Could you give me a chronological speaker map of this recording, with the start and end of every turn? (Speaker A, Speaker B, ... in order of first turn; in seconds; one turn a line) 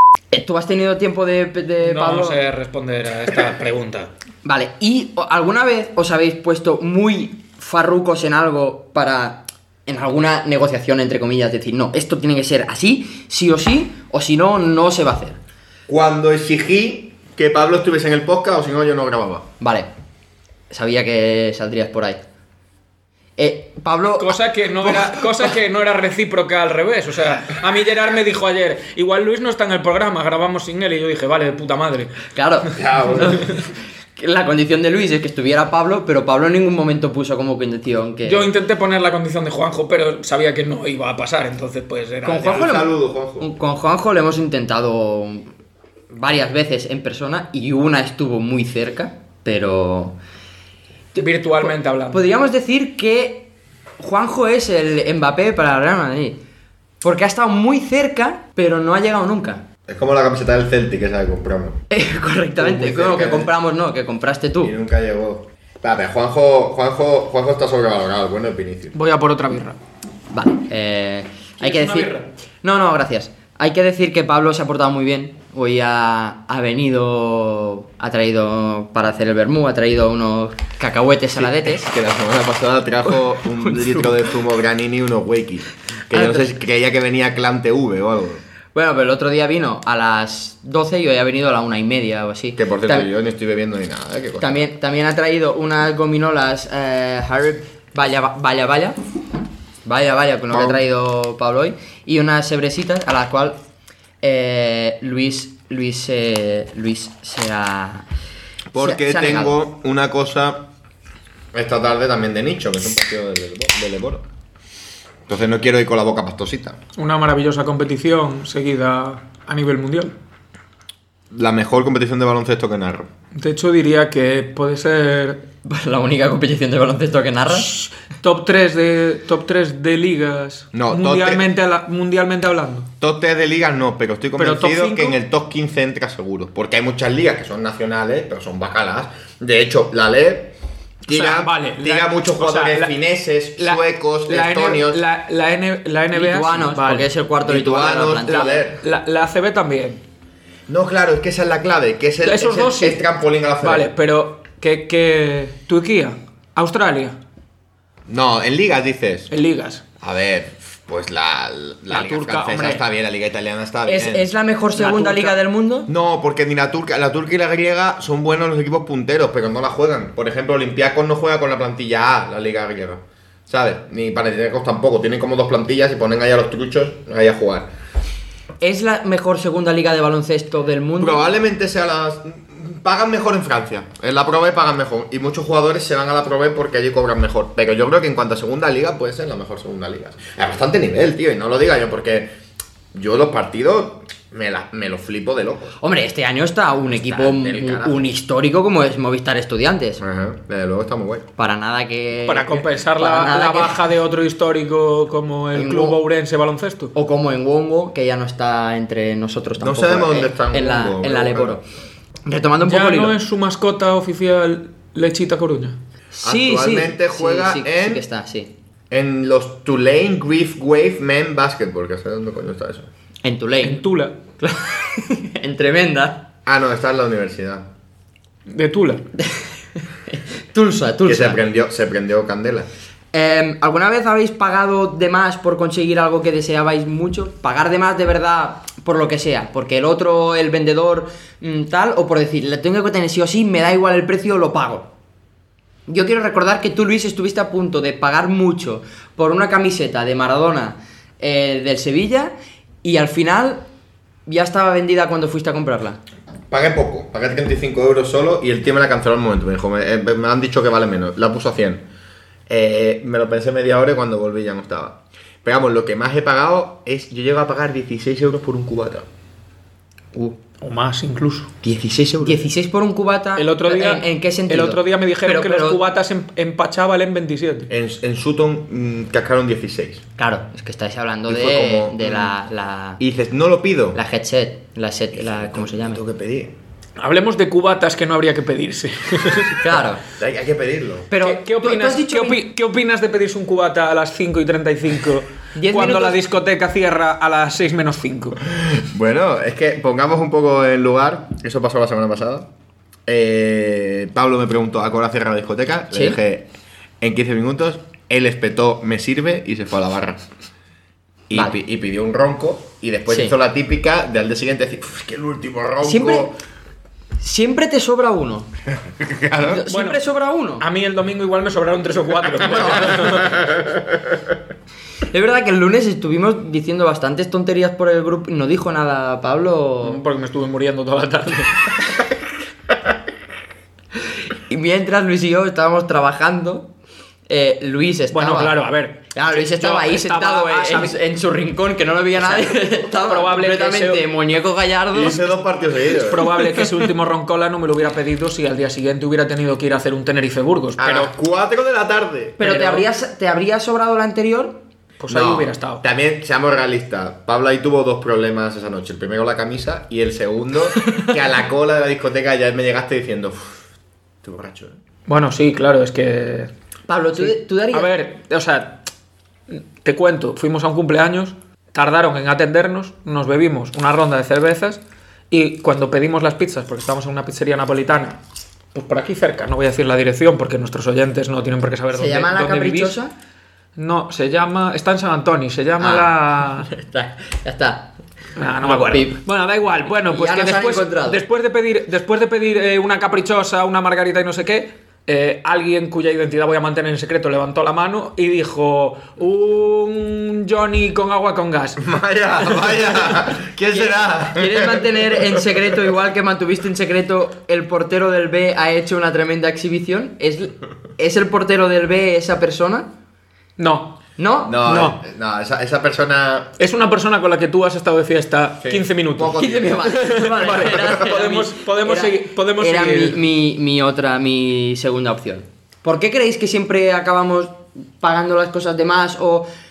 Speaker A: 0.3-2.4
Speaker B: 1.8-4.1
Speaker A: 4.4-15.4
Speaker C: 15.9-19.5
Speaker A: 19.6-19.9
Speaker A: 20.7-22.2
Speaker A: 23.4-25.5
Speaker B: 24.2-32.2
Speaker A: 32.3-38.5
Speaker C: 32.8-33.5
Speaker B: 38.2-42.7
Speaker A: 42.2-45.5
Speaker C: 42.4-43.5
Speaker A: 46.1-50.2
Speaker B: 51.2-52.2
Speaker A: 51.2-56.4
Speaker A: 57.0-59.6
Speaker C: 59.9-61.8
Speaker A: 61.9-64.7
Speaker C: 62.6-63.5
Speaker C: 64.6-69.0
Speaker B: 68.9-69.8
Speaker A: 70.3-81.9
Speaker B: 71.6-72.3
Speaker C: 81.4-88.4
Speaker A: 83.6-84.2
Speaker A: 86.1-86.5
Speaker A: 88.7-93.1
Speaker C: 92.6-94.6
Speaker A: 94.4-99.0
Speaker A: 99.9-103.6
Speaker C: 100.5-100.8
Speaker A: 104.2-108.1
Speaker C: 108.7-110.7
Speaker A: 108.8-109.6
Speaker C: 111.5-114.2
Speaker C: 115.3-116.8
Speaker B: 117.0-120.2
Speaker C: 121.3-123.1
Speaker B: 123.3-125.4
Speaker A: 125.6-127.7
Speaker B: 127.5-132.9
Speaker C: 130.7-131.4
Speaker C: 133.0-145.0
Speaker B: 134.4-135.2
Speaker B: 141.1-142.9
Speaker B: 143.6-147.1
Speaker A: 146.1-148.7
Speaker C: 147.4-148.8
Speaker B: 148.3-150.0
Speaker C: 150.7-153.9
Speaker B: 152.2-153.0
Speaker B: 153.6-157.2
Speaker C: 158.1-159.3
Speaker B: 159.3-159.8
Speaker C: 160.0-164.3
Speaker B: 161.9-162.8
Speaker A: 163.9-165.9
Speaker B: 164.8-165.4
Speaker C: 165.9-177.7
Speaker A: 178.6-181.3
Speaker C: 181.0-192.3
Speaker C: 192.9-195.8
Speaker A: 195.8-200.0
Speaker C: 196.9-198.1
Speaker C: 200.0-201.3
Speaker A: 201.4-203.8
Speaker B: 202.3-206.9
Speaker A: 205.5-206.0
Speaker A: 206.9-211.6
Speaker C: 209.6-211.6
Speaker A: 212.3-213.1
Speaker B: 212.7-215.8
Speaker A: 216.1-218.5
Speaker C: 216.2-218.0
Speaker C: 218.9-222.9
Speaker A: 223.2-223.8
Speaker B: 223.6-224.2
Speaker A: 224.4-226.3
Speaker C: 226.5-227.7
Speaker B: 228.5-229.0
Speaker A: 230.1-231.4
Speaker C: 231.1-232.7
Speaker A: 233.1-244.9
Speaker A: 245.9-253.6
Speaker A: 254.3-256.0
Speaker C: 256.5-261.9
Speaker C: 262.5-269.1
Speaker B: 270.6-271.5
Speaker C: 271.6-272.4
Speaker A: 272.2-275.8
Speaker B: 273.4-277.7
Speaker C: 277.7-280.0
Speaker A: 280.2-283.0
Speaker C: 281.3-282.3
Speaker C: 283.0-284.0
Speaker A: 283.9-286.0
Speaker C: 285.1-286.5
Speaker B: 287.0-289.6
Speaker A: 289.6-290.0
Speaker C: 290.1-291.1
Speaker A: 291.1-292.4
Speaker B: 291.2-298.4
Speaker A: 295.6-296.2
Speaker C: 298.5-302.5
Speaker C: 303.1-306.5
Speaker A: 305.9-306.2
Speaker C: 307.0-310.3
Speaker C: 311.3-316.4
Speaker A: 313.1-313.3
Speaker A: 315.8-316.3
Speaker A: 317.2-318.5
Speaker C: 318.8-319.6
Speaker A: 319.4-320.6
Speaker B: 319.7-320.0
Speaker B: 320.6-323.4
Speaker C: 322.7-324.2
Speaker A: 325.1-330.0
Speaker B: 329.8-331.8
Speaker A: 334.5-336.7
Speaker A: 337.3-338.5
Speaker B: 338.1-341.0
Speaker A: 339.1-345.2
Speaker B: 342.9-344.0
Speaker C: 344.9-346.2
Speaker B: 346.0-351.1
Speaker A: 346.4-346.7
Speaker C: 350.8-352.7
Speaker A: 352.4-354.6
Speaker B: 352.5-352.8
Speaker B: 355.0-355.8
Speaker C: 355.1-363.6
Speaker C: 364.2-364.8
Speaker B: 365.1-366.5
Speaker A: 366.9-367.9
Speaker B: 367.2-368.9
Speaker B: 369.5-378.2
Speaker B: 378.7-383.0
Speaker A: 381.9-383.1
Speaker B: 383.8-386.7
Speaker A: 385.8-387.9
Speaker B: 388.4-401.8
Speaker A: 388.6-389.2
Speaker A: 390.1-391.2
Speaker C: 401.8-405.6
Speaker B: 402.5-402.8
Speaker A: 403.7-412.9
Speaker B: 413.6-414.0
Speaker A: 414.2-414.6
Speaker C: 414.4-416.5
Speaker B: 414.6-415.0
Speaker B: 416.6-423.2
Speaker C: 418.6-419.9
Speaker A: 419.4-429.5